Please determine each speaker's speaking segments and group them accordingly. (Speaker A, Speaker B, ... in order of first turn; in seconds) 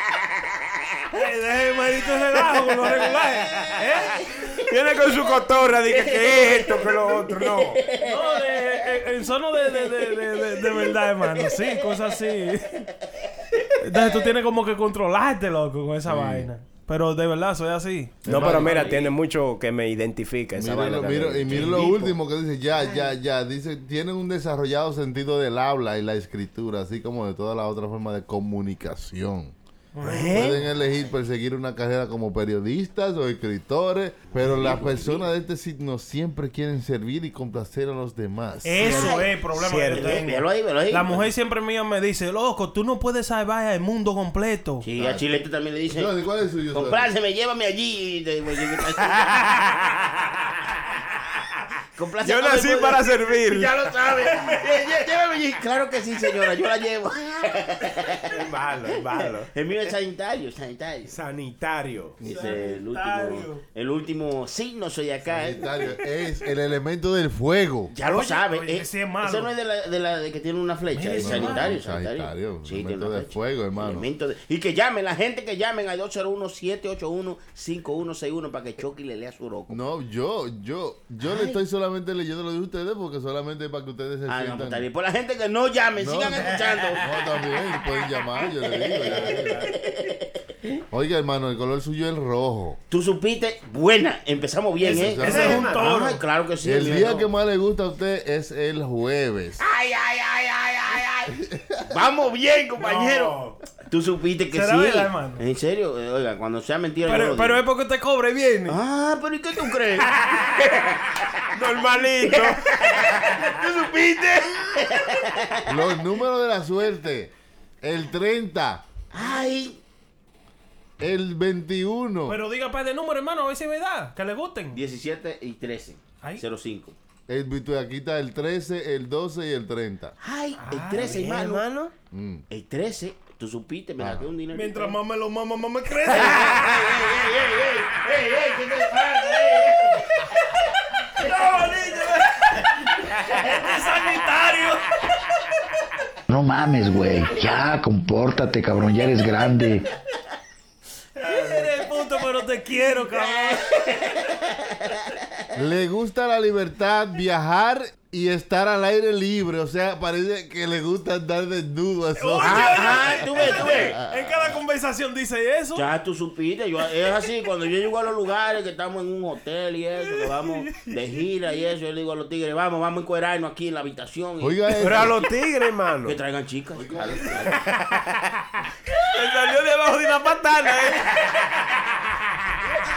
Speaker A: 1.1-4.3, 8.0-12.9, 13.8-18.2, 29.9-30.4, 38.6-44.8, 62.2-63.6, 68.0-69.5, 70.9-71.7, 95.2-96.2, 104.5-105.4, 107.0-108.8, 122.3-124.8, 130.6-131.2, 134.5-136.7, 138.9-139.4, 141.1-142.7, 143.3-144.9, 151.2-153.7, 162.2-165.9, 170.2-170.9
Speaker B: 4.6-7.8, 18.2-22.1, 30.0-30.6, 38.8-40.2, 49.3-49.7, 52.2-53.8, 58.3-59.5, 61.1-62.2, 89.3-89.7, 95.2-95.9, 102.8-103.5, 111.5-112.7, 130.9-131.9, 174.8-176.2, 179.1-181.2
Speaker C: 6.1-8.2, 10.5-10.9, 18.4-19.1, 34.3-35.3, 38.8-41.3, 44.8-46.1, 46.7-49.4, 52.0-58.3, 59.2-61.1, 62.2-65.8, 67.9-79.8, 81.3-81.5, 84.3-87.1, 88.6-90.8, 92.9-97.3, 99.6-107.6, 108.7-111.5, 112.2-115.8, 119.1-119.8, 124.7-126.9, 130.2-131.7, 132.5-135.0, 136.1-140.2, 141.2-141.7, 153.5-154.9, 162.4-164.0, 165.7-175.3, 176.0-177.7
Speaker D: 16.0-16.5, 18.2-18.9, 20.5-29.5, 30.3-39.0, 45.0-45.3, 45.9-47.1, 62.2-62.5, 65.3-67.9, 71.1-74.1, 79.7-84.8, 86.0-89.7, 90.9-92.8, 94.8-95.7, 96.6-99.6, 101.4-101.8, 115.7-118.8, 121.0-122.4, 127.3-130.2, 132.1-132.4, 134.0-134.3, 155.5-164.6, 174.4-175.2, 176.7-177.6
Speaker E: 146.3-149.8